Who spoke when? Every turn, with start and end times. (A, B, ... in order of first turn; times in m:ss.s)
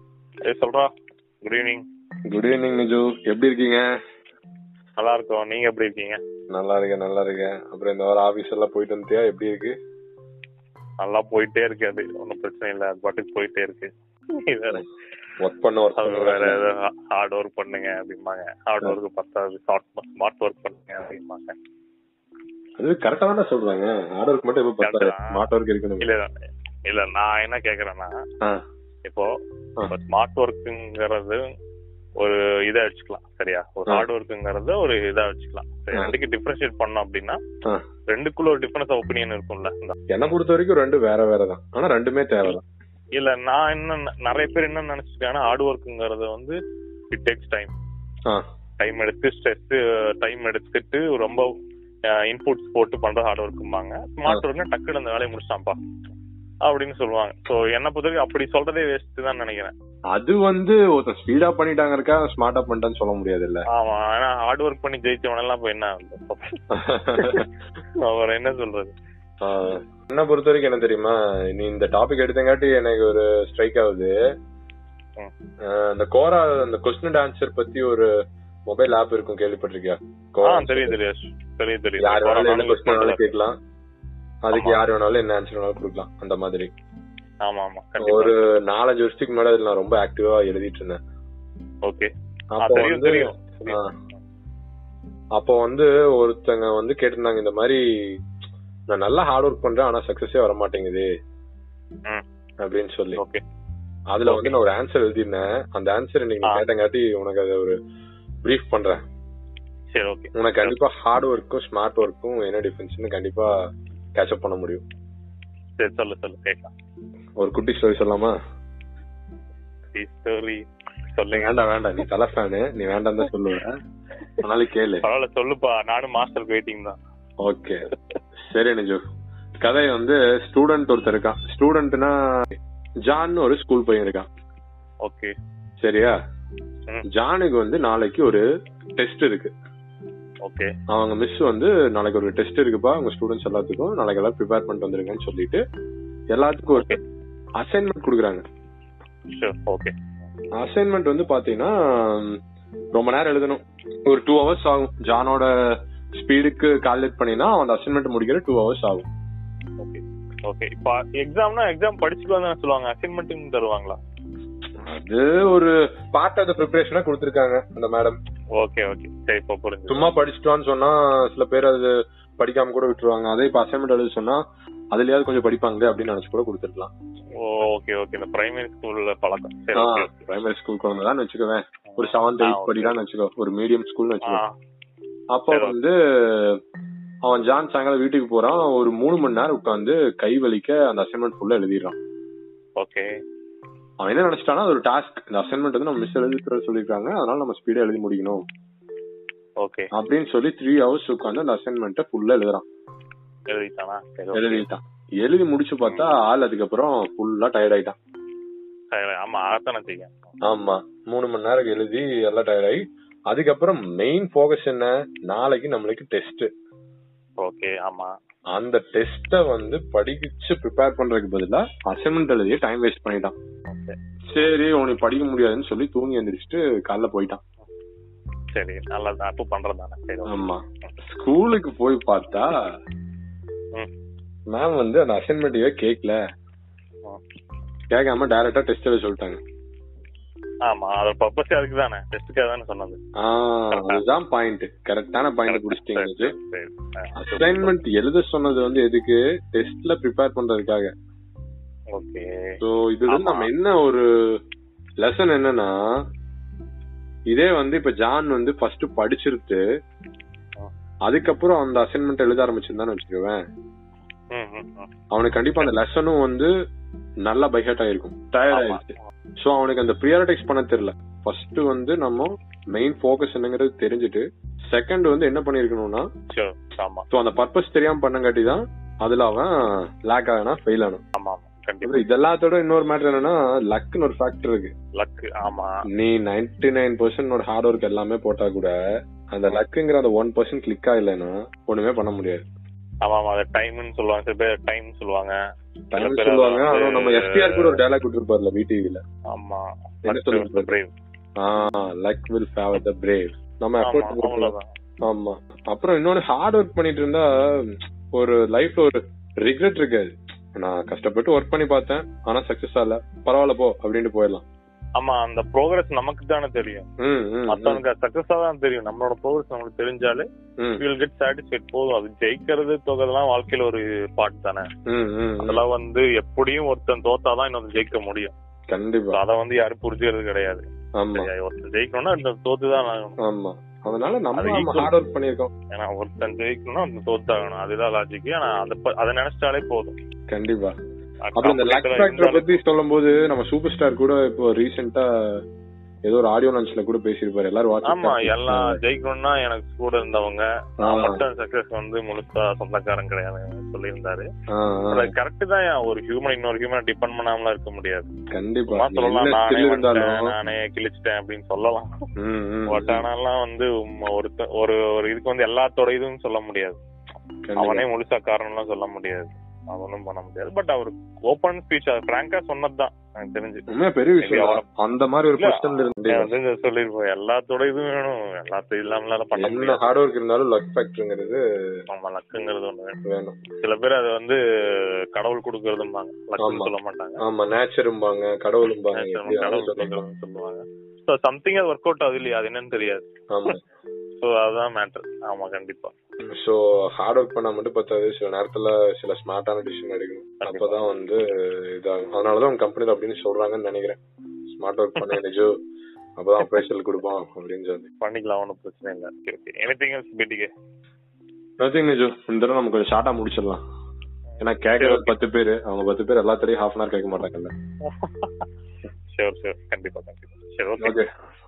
0:00.5-0:00.9 A
0:01.4-0:01.8 A
0:02.3-0:03.8 B
0:05.0-0:06.2 A
0:06.5-0:09.7 B
0:11.0-0:13.9 A
0:14.5-0:14.9 A
0:15.4-0:16.6 B
0:16.0-0:21.6 A
0:22.8-0:26.1 B
0:24.8-0:25.4 A
0:26.0-0:26.3 A
0:26.9-0:28.1 A
0:29.9-0:31.4 A
0:32.2-0:37.4 A
0:38.1-0:40.0 A
0:40.1-0:42.6 B
0:43.1-0:46.6 A
0:47.1-0:47.7 A
0:48.8-0:51.4 A
0:52.1-0:55.8 A
0:56.6-0:59.7 A
1:00.1-1:03.6 B
1:03.7-1:06.6 A
1:06.7-1:07.4 B
1:07.1-1:07.5 A
1:08.0-1:08.9 A
1:09.4-1:14.1 B
1:15.7-1:18.1 B
1:18.7-1:21.0 B
1:20.4-1:23.3 A
1:22.0-1:23.5 B
1:24.4-1:26.7 B
1:24.5-1:24.8 A
1:27.4-1:28.3 A
1:28.0-1:31.0 B
1:32.6-1:33.9 B
1:32.6-1:34.2 A
1:35.4-1:37.8 B
1:38.9-1:41.1 B
1:42.6-1:43.2 B
1:44.1-1:47.8 B
1:44.2-1:44.6 A
1:48.4-1:49.0 B
1:49.9-1:50.8 A
1:50.3-1:53.5 B
1:54.2-1:54.8 B
1:55.8-1:56.7 A
1:57.4-1:58.3 B
1:59.9-2:00.6 A
2:01.1-2:02.1 A
2:01.3-2:03.7 B
2:04.4-2:05.0 B
2:05.0-2:07.0 A
2:07.4-2:07.9 B
2:08.5-2:09.0 B
2:09.6-2:12.5 B
2:13.1-2:14.2 B
2:15.0-2:15.3 A
2:15.8-2:16.1 B
2:17.1-2:18.4 B
2:19.0-2:19.5 B
2:20.4-2:20.7 A
2:20.9-2:25.6 B
2:26.3-2:27.0 B
2:27.6-2:28.4 B
2:29.3-2:29.9 A
2:30.6-2:32.4 B
2:32.9-2:35.5 B
2:36.2-2:39.0 B
2:39.8-2:44.0 A
2:44.8-2:48.2 B
2:48.6-2:50.1 A
2:49.9-2:54.4 B
2:54.9-2:56.9 B
2:57.4-3:00.2 A
2:59.7-3:04.4 B
3:01.9-3:03.0 A
3:04.3-3:04.5 A
3:05.3-3:06.6 B
3:05.5-3:05.8 A
3:07.2-3:12.0 B
3:12.8-3:13.1 A
3:14.0-3:18.4 B
3:19.6-3:19.9 A
3:19.9-3:22.6 B
3:23.5-3:24.6 A
3:24.3-3:28.0 B
3:25.8-3:26.1 A
3:28.9-3:30.3 A
3:30.5-3:36.5 B
3:37.4-3:38.1 A
3:38.5-3:43.3 B
3:43.7-3:43.9 A
3:44.3-3:47.4 B
3:48.5-3:50.4 A
3:50.3-3:52.6 B
3:54.5-3:56.2 B
3:57.9-3:59.4 B
4:00.7-4:03.0 A
4:03.2-4:06.3 B
4:03.7-4:04.0 A
4:05.5-4:07.7 A
4:07.2-4:10.9 B
4:11.9-4:13.5 A
4:12.6-4:14.0 B
4:15.0-4:15.7 B
4:17.3-4:19.6 B
4:21.1-4:23.4 B
4:24.3-4:24.9 A
4:25.1-4:26.5 B
4:27.2-4:28.9 B
4:28.5-4:29.0 A
4:29.4-4:36.0 B
4:36.3-4:37.0 A
4:37.1-4:39.5 B
4:40.0-4:41.0 B
4:41.2-4:42.0 A
4:41.8-4:44.7 B
4:45.0-4:45.7 A
4:46.0-4:48.7 B
4:49.3-4:52.4 B
4:53.0-4:55.3 A
4:55.9-4:59.0 B
4:56.0-4:57.8 A
4:59.3-5:00.9 A
5:00.1-5:00.7 B
5:01.4-5:04.5 B
5:03.8-5:04.7 A
5:05.1-5:07.3 B
5:08.2-5:14.4 B
5:15.0-5:16.8 A
5:17.0-5:17.8 B
5:17.5-5:20.2 A
5:20.8-5:24.6 A
5:24.9-5:25.6 B
5:25.4-5:28.3 A
5:28.7-5:29.2 B
5:29.1-5:30.6 A
5:31.0-5:31.3 B
5:31.1-5:33.2 A
5:33.2-5:35.5 B
5:34.4-5:34.9 A
5:35.7-5:39.9 A
5:40.3-5:40.7 B
5:41.3-5:42.6 A
5:41.4-5:45.0 B
5:46.1-5:48.8 B
5:47.9-5:54.2 A
5:50.8-5:51.2 B
5:54.5-5:55.1 B
5:54.9-5:58.1 A
5:58.3-6:00.3 B
5:58.7-6:02.0 A
6:02.2-6:03.0 B
6:02.7-6:06.8 A
6:07.4-6:07.8 B
6:07.6-6:13.6 A
6:13.7-6:16.3 B
6:14.2-6:14.6 A
6:15.4-6:19.8 A
6:19.4-6:21.4 B
6:21.9-6:23.0 A
6:23.1-6:23.4 B
6:23.6-6:24.4 A
6:25.1-6:27.2 A
6:26.4-6:26.7 B
6:27.2-6:30.0 B
6:28.9-6:33.5 A
6:33.3-6:33.6 B
6:34.2-6:35.9 A
6:36.3-6:44.0 B
6:40.4-6:40.8 A
6:44.5-6:45.5 B
6:46.2-6:47.9 B
6:48.0-6:50.5 A
6:51.6-6:53.6 B
6:54.4-6:57.5 B
6:54.8-6:55.2 A
6:57.8-6:58.4 A
6:59.1-7:01.0 A
7:00.8-7:01.1 B